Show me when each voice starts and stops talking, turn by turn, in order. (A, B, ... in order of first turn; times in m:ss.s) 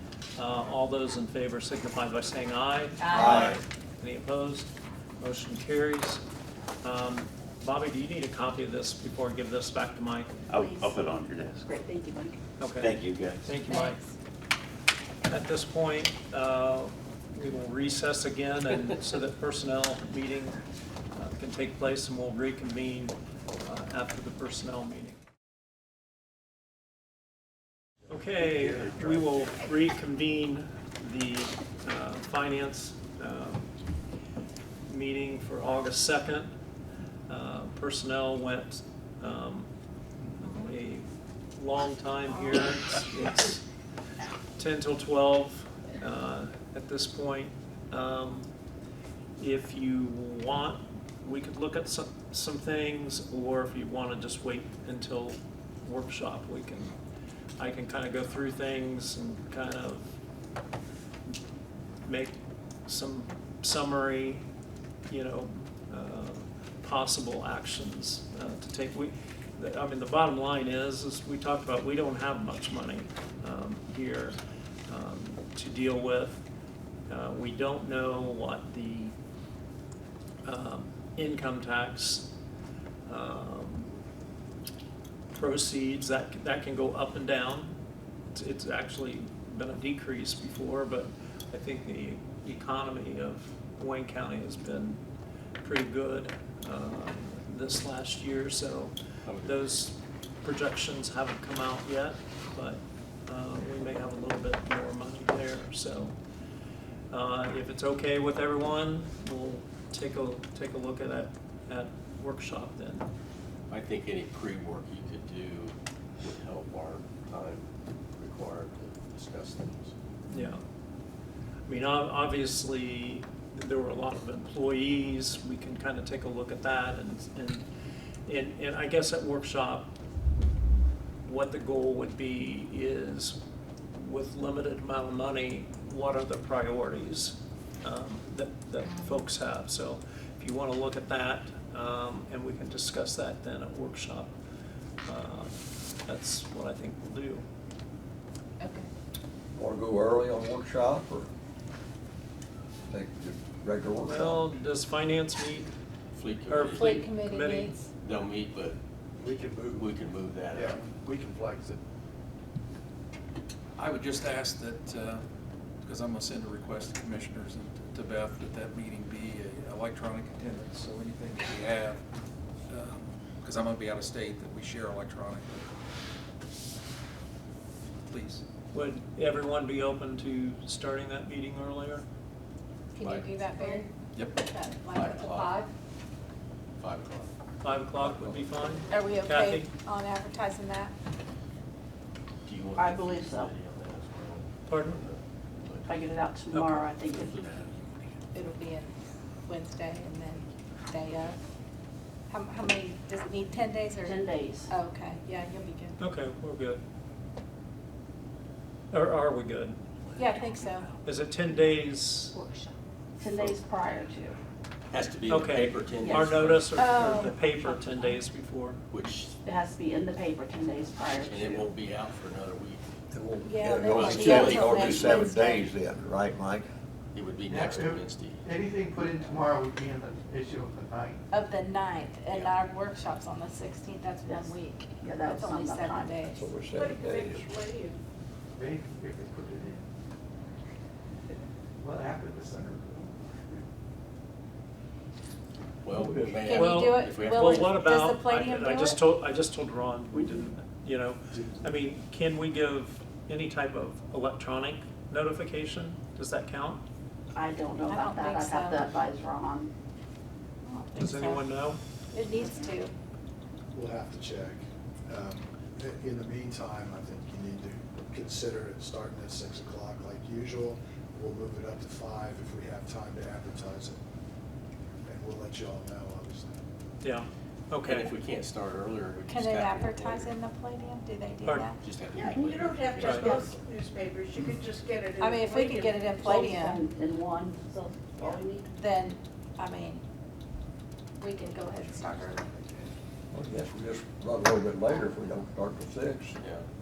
0:00.4-0:06.2 A
0:03.0-0:03.5 B
0:03.2-0:03.5 C
0:06.8-0:10.3 A
0:10.5-0:11.7 C
0:10.5-0:11.0 D
0:11.6-0:12.4 D
0:12.6-0:14.0 A
0:12.8-0:13.6 C
0:13.7-0:14.0 B
0:15.3-0:20.6 A
0:21.1-0:25.2 A
0:28.1-0:33.7 A
0:34.9-0:36.5 A
0:37.3-0:39.7 A
0:40.3-0:43.7 A
0:44.6-0:48.5 A
0:49.4-0:57.0 A
0:57.6-1:00.2 A
1:02.0-1:04.4 A
1:05.1-1:14.4 A
1:14.9-1:16.4 A
1:17.1-1:19.1 A
1:20.4-1:22.3 A
1:23.1-1:23.9 A
1:25.3-1:27.8 A
1:28.3-1:35.0 A
1:35.6-1:46.2 A
1:39.2-1:39.7 E
1:47.1-1:53.1 A
1:53.7-1:59.9 E
2:00.3-2:00.6 A
2:01.7-2:07.7 A
2:08.2-2:09.9 A
2:11.2-2:13.4 A
2:13.9-2:24.3 A
2:18.8-2:19.2 B
2:25.0-2:27.4 A
2:28.6-2:28.9 B
2:29.5-2:31.3 F
2:32.9-2:34.4 F
2:34.0-2:35.7 A
2:36.1-2:37.1 E
2:36.5-2:37.8 A
2:36.7-2:37.8 B
2:38.0-2:38.8 E
2:39.1-2:41.8 G
2:39.7-2:40.8 E
2:43.8-2:45.2 H
2:45.8-2:52.0 H
2:52.7-2:55.7 H
2:58.1-2:58.4 H
2:58.7-3:02.0 A
3:02.9-3:05.7 B
3:03.0-3:03.4 E
3:04.1-3:04.4 H
3:04.9-3:05.6 E
3:06.8-3:07.3 E
3:07.6-3:09.7 A
3:08.0-3:08.7 F
3:08.9-3:10.9 B
3:12.4-3:16.0 E
3:12.8-3:13.5 D
3:14.7-3:15.0 A
3:15.8-3:17.4 D
3:16.5-3:16.8 A
3:17.1-3:17.7 E
3:18.3-3:21.4 B
3:22.3-3:26.0 B
3:24.0-3:24.7 D
3:26.0-3:26.8 A
3:28.9-3:29.8 A
3:30.1-3:30.9 B
3:31.0-3:32.3 A
3:33.2-3:34.4 D
3:33.2-3:33.6 E
3:34.9-3:37.0 E
3:35.3-3:38.8 A
3:36.0-3:36.4 D
3:36.8-3:38.2 B
3:38.9-3:39.4 E
3:39.4-3:41.7 D
3:41.1-3:42.9 E
3:43.1-3:46.7 F
3:43.4-3:45.7 B
3:43.9-3:45.3 E
3:47.1-3:49.4 E
3:47.6-3:48.0 I
3:48.5-3:49.7 I
3:50.3-3:51.1 J
3:51.3-3:56.4 B
3:52.3-3:52.5 E
3:54.2-3:56.2 D
3:56.3-3:57.5 F
3:56.8-3:58.0 I
3:58.6-3:59.8 J
4:05.8-4:07.9 E
4:05.9-4:06.4 F
4:06.4-4:09.1 B
4:06.5-4:16.8 A
4:10.1-4:10.5 D
4:11.3-4:11.6 G
4:17.3-4:19.7 D
4:17.9-4:18.9 B
4:20.6-4:21.5 B
4:21.0-4:21.8 A
4:22.1-4:22.7 D
4:22.2-4:22.9 B
4:23.7-4:34.0 G
4:35.0-4:36.6 G
4:37.0-4:38.1 A
4:37.9-4:40.3 E
4:39.3-4:41.8 B
4:41.4-4:41.7 A
4:41.8-4:43.4 E
4:42.1-4:43.5 D
4:42.6-4:44.9 I
4:43.0-4:43.3 A
4:45.2-4:46.8 B
4:46.1-4:48.7 D
4:48.2-4:50.0 B
4:51.2-4:52.9 B
4:53.3-4:56.4 F
4:56.4-4:56.6 E